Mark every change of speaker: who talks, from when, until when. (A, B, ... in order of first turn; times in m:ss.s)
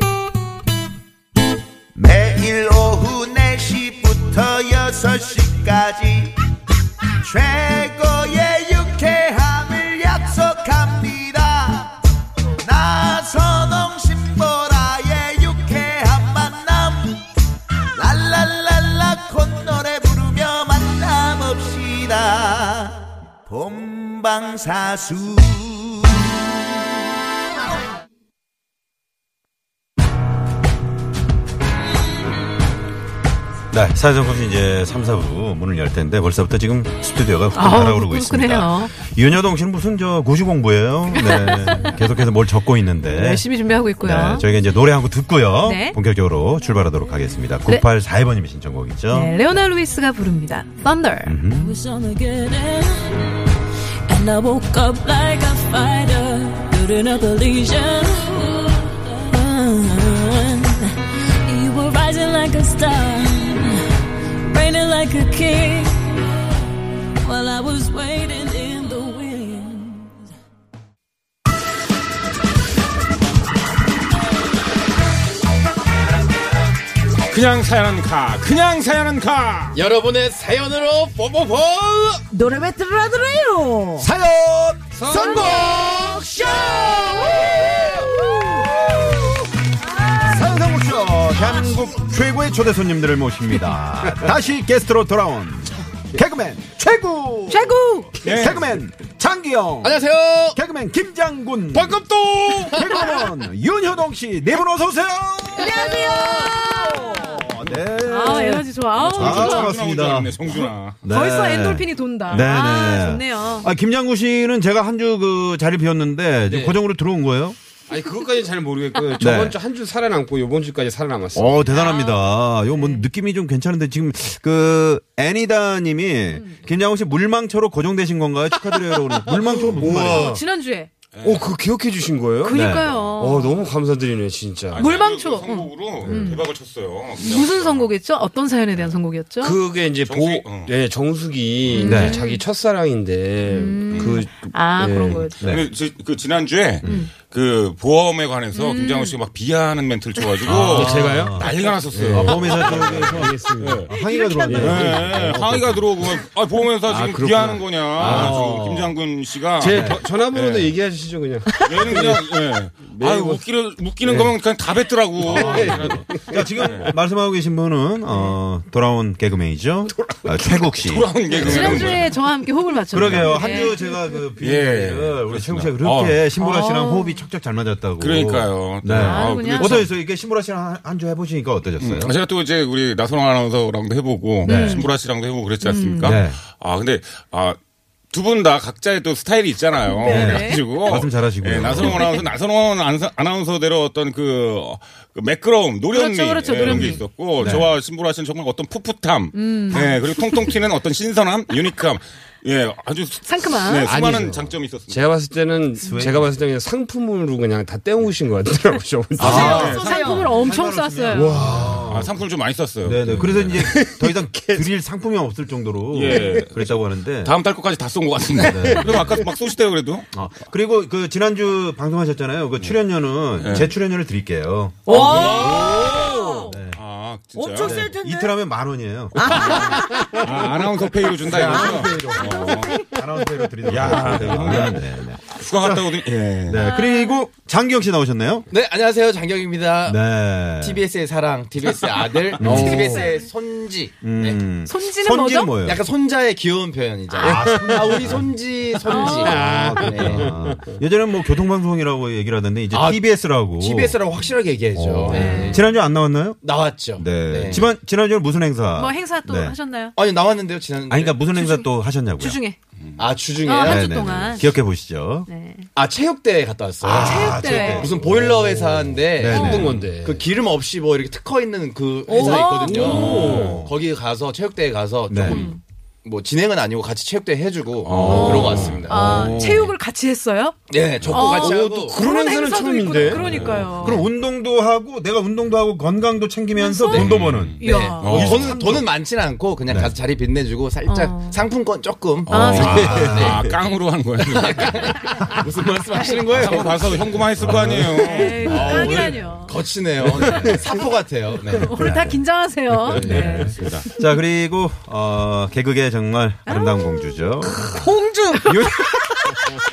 0:01.9-0:06.3 A
0:07.2-0:12.0 A
0:12.6-0:17.2 A
0:17.9-0:26.4 A
0:33.7-0:49.3 B
0:37.5-0:38.9 C
0:41.1-0:41.9 C
0:43.0-0:44.4 C
0:45.6-0:46.0 C
0:49.1-0:51.4 C
0:51.2-0:51.7 B
0:51.5-0:53.4 D
0:54.1-1:03.8 D
1:04.5-1:06.2 D
1:07.2-1:10.2 D
1:17.3-1:19.8 E
1:19.7-1:22.2 F
1:22.3-1:24.1 G
1:24.0-1:29.3 B
1:24.9-1:26.5 H
1:25.1-1:28.8 G
1:29.8-1:30.5 G
1:30.2-1:40.0 B
1:37.5-1:38.1 C
1:38.2-1:38.7 E
1:39.8-1:40.6 F
1:40.5-1:42.0 B
1:41.7-1:42.8 H
1:42.7-1:46.5 B
1:45.6-1:47.5 G
1:47.1-1:57.6 B
1:48.0-1:49.7 C
1:49.0-1:51.0 E
1:51.0-1:53.7 C
1:56.5-1:56.8 H
1:57.9-2:01.5 H
1:59.2-1:59.6 B
2:01.3-2:10.4 B
2:01.7-2:03.0 C
2:06.3-2:06.6 C
2:08.9-2:10.4 H
2:09.8-2:10.9 C
2:11.1-2:11.5 E
2:11.2-2:14.9 H
2:12.4-2:13.6 C
2:12.5-2:12.9 B
2:14.7-2:17.9 E
2:14.7-2:16.4 C
2:16.0-2:16.4 H
2:17.2-2:19.6 C
2:19.4-2:25.3 H
2:20.0-2:20.7 E
2:21.7-2:22.4 C
2:21.8-2:22.2 B
2:23.4-2:25.3 C
2:23.9-2:24.2 E
2:25.4-2:25.6 B
2:25.4-2:33.9 E
2:26.8-2:27.1 B
2:26.8-2:27.1 C
2:28.5-2:29.1 C
2:30.4-2:35.8 B
2:30.5-2:33.9 H
2:33.9-2:34.8 C
2:34.4-2:35.9 H
2:34.5-2:40.7 E
2:36.9-2:38.9 B
2:36.9-2:38.5 H
2:39.6-2:42.3 H
2:39.6-2:40.0 B
2:41.6-2:46.9 E
2:42.8-2:43.4 H
2:44.0-2:44.3 H
2:45.2-2:46.4 H
2:45.3-2:52.1 B
2:50.0-2:50.4 H
2:50.8-2:52.1 E
2:51.3-2:53.8 C
2:52.9-3:02.1 B
2:52.9-2:53.4 E
2:54.4-2:56.2 E
2:56.4-2:57.2 C
2:58.0-2:59.9 E
2:58.9-2:59.8 C
3:01.8-3:07.6 E
3:04.4-3:04.9 B
3:04.4-3:04.9 C
3:05.6-3:06.2 C
3:06.0-3:06.4 B
3:08.1-3:25.0 E
3:09.9-3:10.7 C
3:10.0-3:12.2 B
3:11.8-3:12.2 C
3:15.9-3:17.0 C
3:16.6-3:17.7 B
3:19.3-3:19.9 C
3:23.2-3:23.9 C
3:23.8-3:29.7 H
3:25.8-3:26.3 B
3:29.2-3:30.1 E
3:29.2-3:30.5 G
3:29.2-3:32.1 B
3:29.3-3:31.3 C
3:31.1-3:31.9 H
3:31.9-3:33.7 E
3:32.8-3:37.3 B
3:33.0-3:34.7 H
3:35.9-3:40.1 E
3:38.5-3:39.2 B
3:40.1-3:45.9 B
3:43.4-3:43.7 E
3:44.8-3:46.5 G
3:44.9-3:47.8 E
3:45.3-3:46.4 H
3:46.5-3:46.8 B
3:47.3-3:48.3 G
3:47.6-3:49.6 B
3:49.1-3:50.3 G
3:49.3-3:52.8 E
3:51.2-3:55.9 B
3:51.4-3:52.5 G
3:53.7-3:56.6 E
3:54.2-3:54.6 H
3:56.5-3:58.5 B
3:56.6-3:57.2 C
3:58.5-4:00.0 F
3:59.8-4:00.8 B
4:00.6-4:04.4 F
4:02.4-4:03.0 H
4:02.4-4:03.0 B
4:04.0-4:05.8 B
4:04.6-4:05.5 C
4:05.6-4:10.3 F
4:07.2-4:08.3 B
4:07.2-4:08.2 H
4:08.9-4:09.3 C
4:08.9-4:10.7 H
4:09.3-4:14.0 B
4:12.7-4:13.0 F
4:13.6-4:15.6 F
4:14.8-4:16.4 B
4:14.8-4:15.5 H
4:15.1-4:15.5 C
4:16.4-4:17.7 F
4:17.0-4:19.6 B
4:18.7-4:19.9 C
4:19.9-4:21.2 F
4:20.9-4:22.4 B
4:21.3-4:22.6 C
4:23.0-4:23.9 F
4:23.4-4:24.5 C
4:23.6-4:25.3 B
4:25.3-4:25.7 C
4:25.7-4:39.7 F
4:26.8-4:29.9 B
4:27.0-4:27.9 C
4:29.2-4:30.2 H
4:29.3-4:29.7 C
4:32.1-4:32.8 G
4:32.1-4:33.4 C
4:32.3-4:33.6 H
4:32.8-4:33.7 B
4:35.1-4:35.4 B
4:35.2-4:35.6 C
4:37.8-4:38.8 E
4:37.9-4:39.6 B
4:38.0-4:40.6 C
4:40.7-4:42.1 F
4:41.1-4:44.0 C
4:41.2-4:43.6 H
4:43.1-4:43.7 E
4:43.8-4:48.6 B
4:46.5-4:48.8 C
4:46.9-4:48.8 E
4:47.6-4:53.4 F
4:49.7-4:49.9 B
4:50.8-4:51.4 C
4:52.3-4:53.0 C
4:52.3-4:53.6 B
4:52.4-4:55.0 E
4:54.2-4:56.9 F
4:56.3-4:58.5 E
4:57.4-4:58.0 B
4:57.5-4:58.3 H
4:58.0-4:59.5 C
4:58.4-5:01.8 F
4:58.6-4:59.0 B
5:00.2-5:00.6 B
5:00.3-5:00.6 H
5:01.6-5:02.2 B
5:01.6-5:03.5 C
5:02.9-5:03.4 F
5:03.0-5:07.7 B
5:03.0-5:03.6 H
5:03.4-5:03.8 E
5:06.5-5:07.2 C
5:07.6-5:09.5 G
5:08.4-5:09.0 B